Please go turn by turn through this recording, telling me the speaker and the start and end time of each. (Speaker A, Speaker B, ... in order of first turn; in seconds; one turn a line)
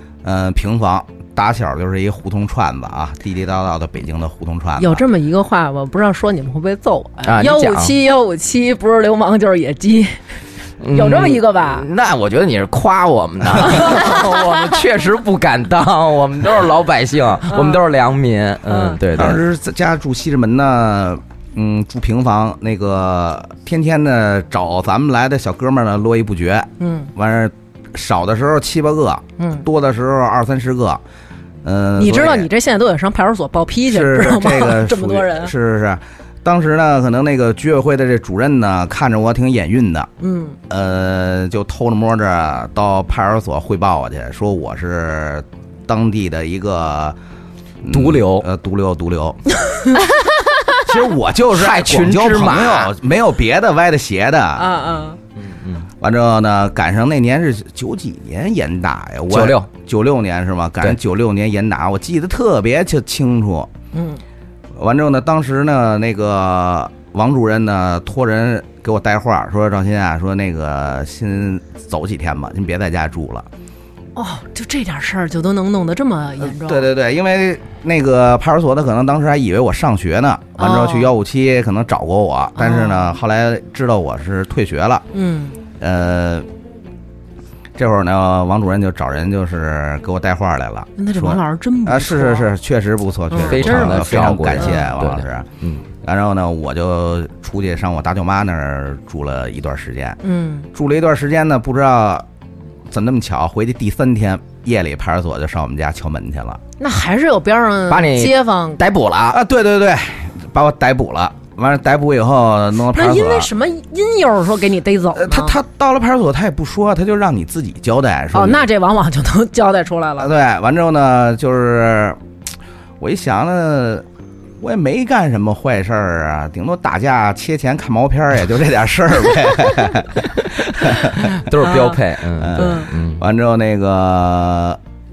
Speaker A: 0.2-5.0
Speaker B: 4.8-10.2
Speaker C: 7.2-8.0
Speaker C: 10.8-19.4
Speaker B: 10.9-11.9
Speaker B: 13.7-14.0
Speaker B: 17.5-17.8
Speaker B: 18.7-19.0
Speaker A: 19.1-31.0
Speaker B: 26.8-27.1
Speaker B: 29.4-29.7
Speaker A: 31.6-32.5
Speaker B: 32.0-35.5
Speaker A: 33.9-40.1
Speaker B: 40.2-40.6
Speaker A: 40.7-47.2
Speaker A: 47.8-49.4
Speaker C: 47.9-48.5
Speaker B: 49.7-50.0
Speaker A: 50.8-54.7
Speaker C: 51.5-52.9
Speaker B: 54.6-55.2
Speaker C: 55.4-55.9
Speaker A: 56.0-63.7
Speaker C: 59.3-59.7
Speaker B: 63.9-64.2
Speaker A: 64.8-73.5
Speaker B: 74.2-76.9
Speaker A: 76.4-85.1
Speaker B: 80.6-81.1
Speaker B: 82.6-83.1
Speaker B: 85.1-85.6
Speaker A: 85.8-86.5
Speaker A: 87.8-95.5
Speaker B: 91.0-92.5
Speaker B: 93.3-94.8
Speaker C: 93.4-95.8
Speaker A: 96.0-100.2
Speaker B: 100.2-100.7
Speaker A: 100.7-102.2
Speaker A: 102.9-106.6
Speaker B: 106.8-108.8
Speaker C: 107.9-109.4
Speaker A: 109.3-113.5
Speaker B: 112.9-115.6
Speaker A: 115.2-118.7
Speaker B: 118.3-120.3
Speaker A: 120.2-122.2
Speaker A: 123.0-124.0
Speaker A: 124.6-131.4
Speaker C: 130.9-133.2
Speaker B: 131.6-132.0
Speaker A: 132.4-134.8
Speaker B: 132.6-132.9